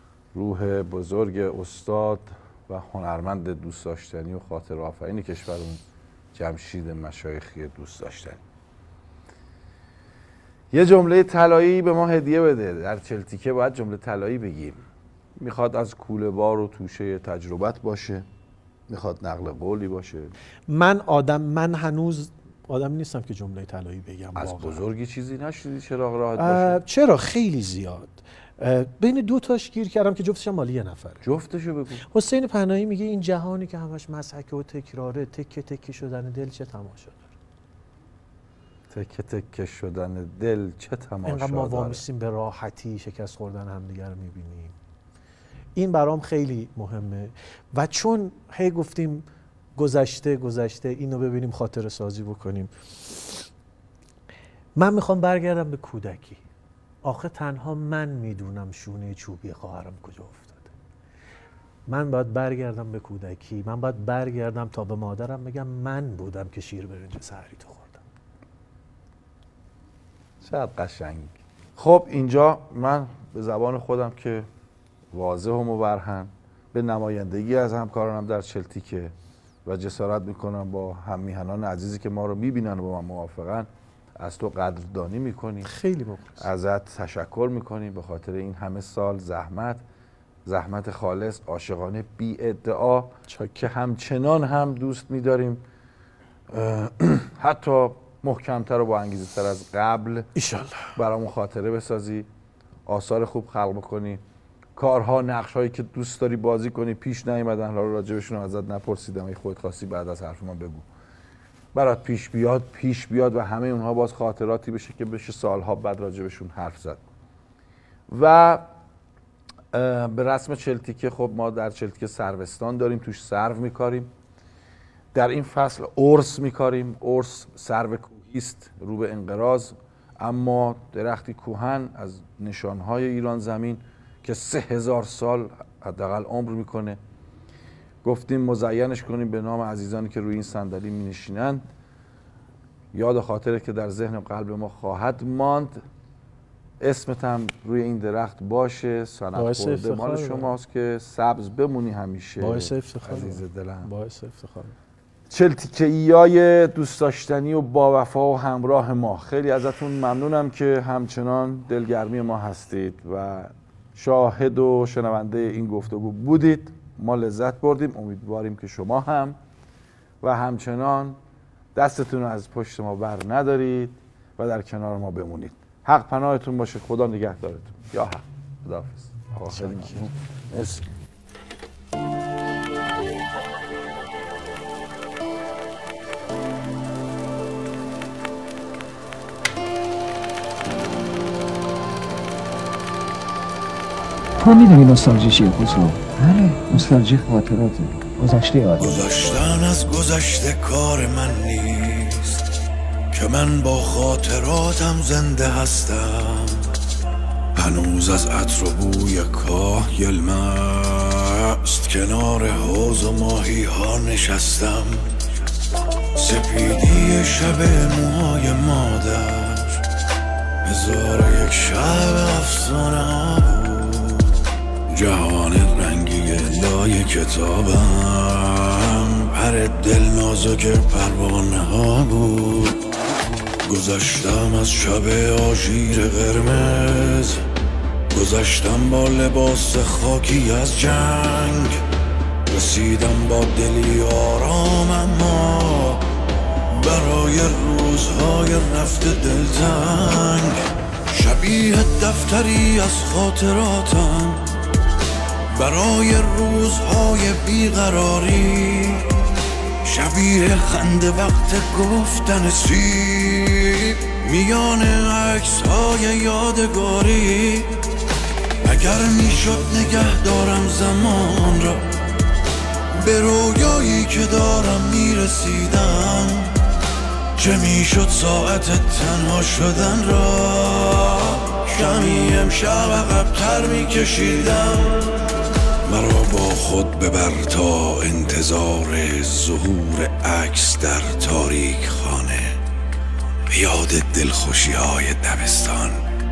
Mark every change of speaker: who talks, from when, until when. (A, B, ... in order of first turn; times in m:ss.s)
0:00.3-0:05.8 A
0:06.3-0:08.4 A
0:10.7-0:14.8 A
0:15.4-0:18.2 A
0:18.9-0:20.3 A
0:20.7-0:24.8 B
0:24.4-0:26.8 A
0:26.4-0:31.3 B
0:31.2-0:32.0 A
0:32.1-0:37.3 B
0:38.9-0:42.0 A
0:41.2-0:44.8 B
0:45.8-0:53.4 B
0:54.8-0:56.4 B
0:57.0-1:00.7 B
1:01.9-1:08.0 B
1:10.4-1:14.5 A
1:15.1-1:19.1 A
1:19.6-1:23.7 A
1:24.2-1:25.7 A
1:25.6-1:26.5 B
1:26.4-1:29.8 A
1:30.4-1:35.6 A
1:33.3-1:33.7 B
1:36.5-1:40.3 A
1:40.3-1:40.9 B
1:40.9-1:42.3 A
1:42.9-1:44.2 A
1:44.8-1:50.8 A
1:51.7-1:57.0 A
1:58.1-1:58.6 A
1:59.7-2:04.1 A
2:05.1-2:17.0 A
2:18.0-2:21.6 A
2:22.9-2:25.8 A
2:26.8-2:33.9 A
2:29.3-2:30.5 B
2:32.4-2:34.7 B
2:35.3-2:49.4 A
2:50.2-2:51.2 A
2:51.7-3:00.8 A
2:59.5-3:00.1 B
3:14.4-3:19.0 C
3:18.8-3:22.4 D
3:23.1-3:26.6 D
3:27.6-3:35.0 D
3:36.2-3:39.8 D
3:40.6-3:44.2 D
3:44.9-3:52.7 D
3:53.7-3:57.4 D
3:58.1-4:01.8 D
4:02.5-4:06.0 D
4:06.8-4:10.6 D
4:11.1-4:14.4 D
4:15.5-4:19.0 D
4:19.8-4:27.7 D
4:28.6-4:31.8 D
4:33.0-4:36.5 D
4:37.4-4:44.9 D
4:45.9-4:52.5 D
4:53.5-4:56.0 D